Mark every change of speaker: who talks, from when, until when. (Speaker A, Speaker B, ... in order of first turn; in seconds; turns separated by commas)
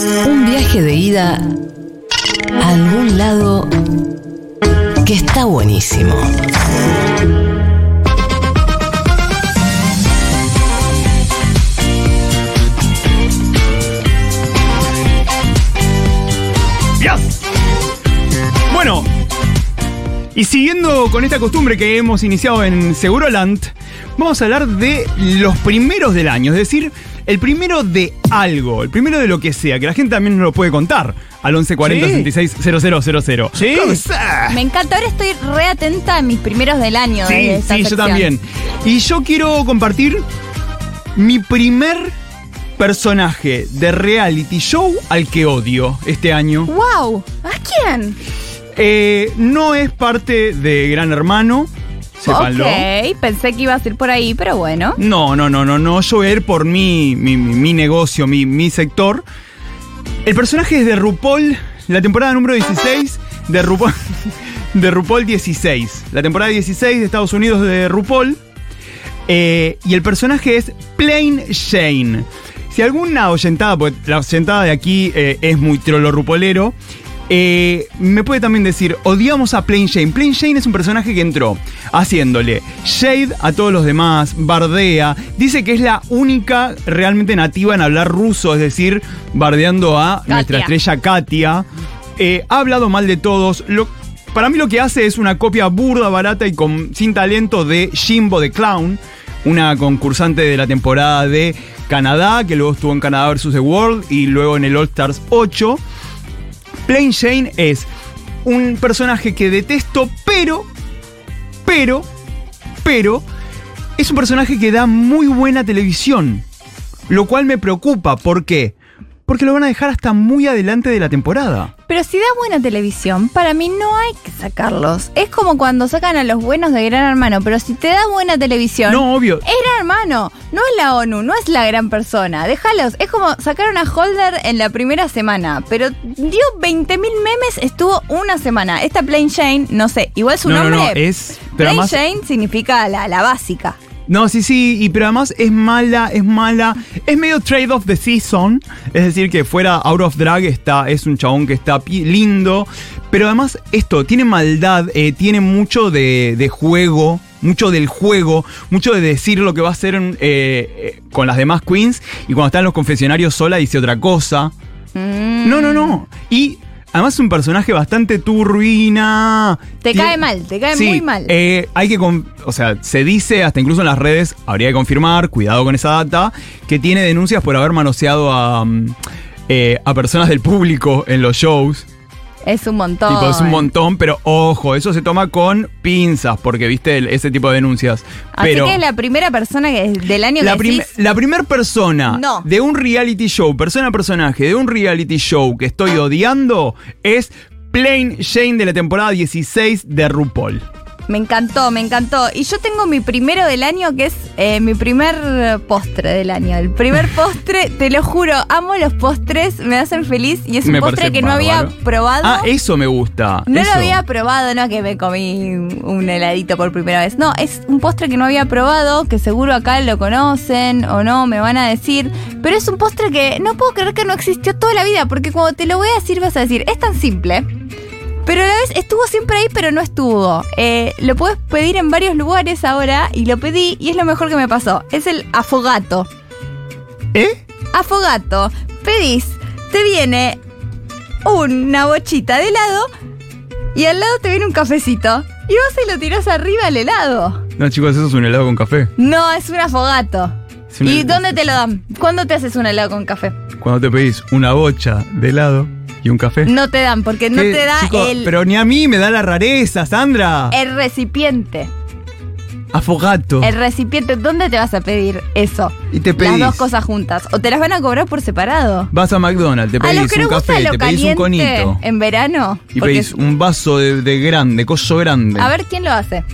Speaker A: 0.2-1.4, Speaker A: 2.6-3.7, Speaker A: 5.0-6.3, Speaker B: 17.0-17.4, Speaker B: 18.7-19.1, Speaker B: 20.3-34.6, Speaker C: 31.9-32.2, Speaker C: 33.7-34.0, Speaker C: 34.5-38.3, Speaker B: 37.2-40.2, Speaker B: 41.1-42.1, Speaker B: 42.8-46.7, Speaker C: 46.7-48.2, Speaker B: 48.8-52.9, Speaker C: 52.2-55.0, Speaker B: 55.0-59.2, Speaker B: 60.2-64.0, Speaker B: 64.7-68.4, Speaker B: 69.3-76.8, Speaker B: 77.3-91.7, Speaker C: 90.3-90.7, Speaker B: 92.2-105.8, Speaker B: 106.8-107.9, Speaker B: 108.4-110.7, Speaker B: 111.7-112.1, Speaker B: 112.8-113.2, Speaker B: 114.0-116.4, Speaker B: 117.1-118.7, Speaker B: 119.3-121.7, Speaker C: 121.9-141.0, Speaker B: 128.9-129.4, Speaker B: 140.4-142.0, Speaker C: 141.5-143.8, Speaker B: 144.1-164.5, Speaker C: 164.9-166.0, Speaker B: 165.4-170.2, Speaker C: 169.8-171.3, Speaker B: 170.7-178.9, Speaker B: 179.5-181.9, Speaker C: 182.4-183.7, Speaker B: 183.1-188.8, Speaker C: 188.3-190.9, Speaker B: 190.4-200.6, Speaker C: 192.1-192.4, Speaker C: 201.1-212.5, Speaker B: 210.6-214.0, Speaker C: 213.5-227.5, Speaker C: 228.2-236.1, Speaker B: 237.1-237.4, Speaker C: 237.7-240.4, Speaker C: 241.2-242.9, Speaker C: 243.7-247.4, Speaker B: 247.6-248.9, Speaker C: 249.0-253.3, Speaker B: 250.7-251.4, Speaker B: 253.6-256.5, Speaker C: 256.4-258.3, Speaker B: 257.3-260.5, Speaker C: 260.5-261.7, Speaker B: 262.7-263.5, Speaker C: 263.4-268.9, Speaker B: 265.9-266.6, Speaker B: 268.9-271.8, Speaker C: 269.8-273.1, Speaker B: 272.7-275.5, Speaker C: 275.4-276.2